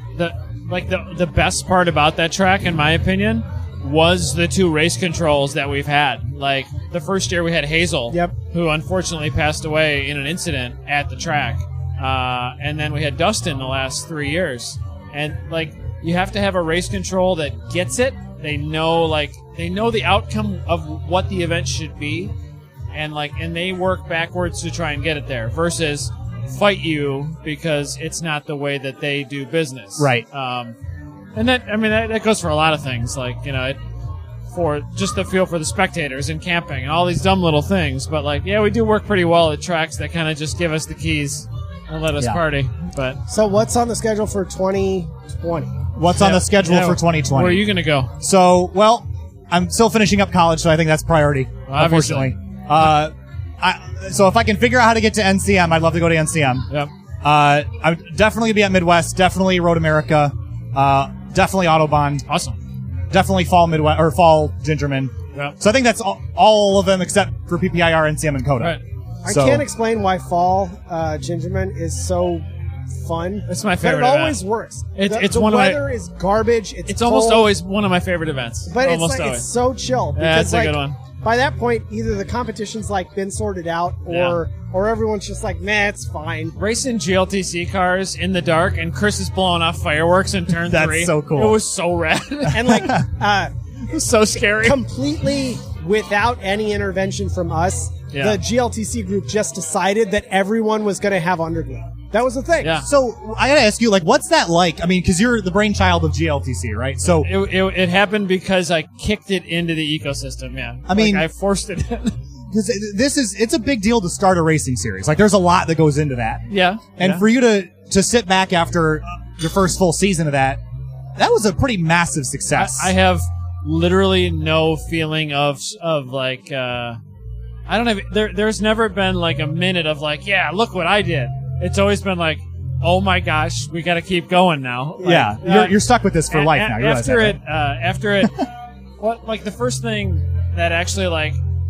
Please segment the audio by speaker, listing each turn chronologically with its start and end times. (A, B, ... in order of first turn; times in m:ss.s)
0:00.2-0:22.3 A
0:22.9-0:30.8 A
0:30.0-0:30.2 B
0:31.4-0:33.8 A
0:34.5-0:43.2 A
0:43.3-0:45.8 C
0:46.0-0:47.6 B
0:46.1-0:48.1 A
0:48.2-0:56.7 B
0:51.7-0:52.3 A
0:57.2-1:02.3 B
1:02.3-1:02.6 A
1:03.1-1:09.6 B
1:09.2-1:17.5 C
1:13.5-1:14.4 A
1:15.0-1:15.8 A
1:16.9-1:19.4 A
1:18.7-1:26.6 C
1:20.2-1:21.0 A
1:24.1-1:24.4 A
1:26.6-1:33.0 A
1:30.7-1:31.6 B
1:32.5-1:33.5 C
1:32.7-1:33.0 B
1:33.9-1:34.8 A
1:34.6-1:42.8 C
1:42.6-1:42.9 A
1:42.8-1:47.3 B
1:47.2-1:52.2 A
1:50.9-1:51.3 B
1:52.5-1:56.4 B
1:56.5-1:57.2 A
1:57.0-2:00.6 B
2:01.2-2:02.9 B
2:02.5-2:07.0 A
2:07.7-2:15.8 A
2:15.0-2:17.4 B
2:16.3-2:21.4 A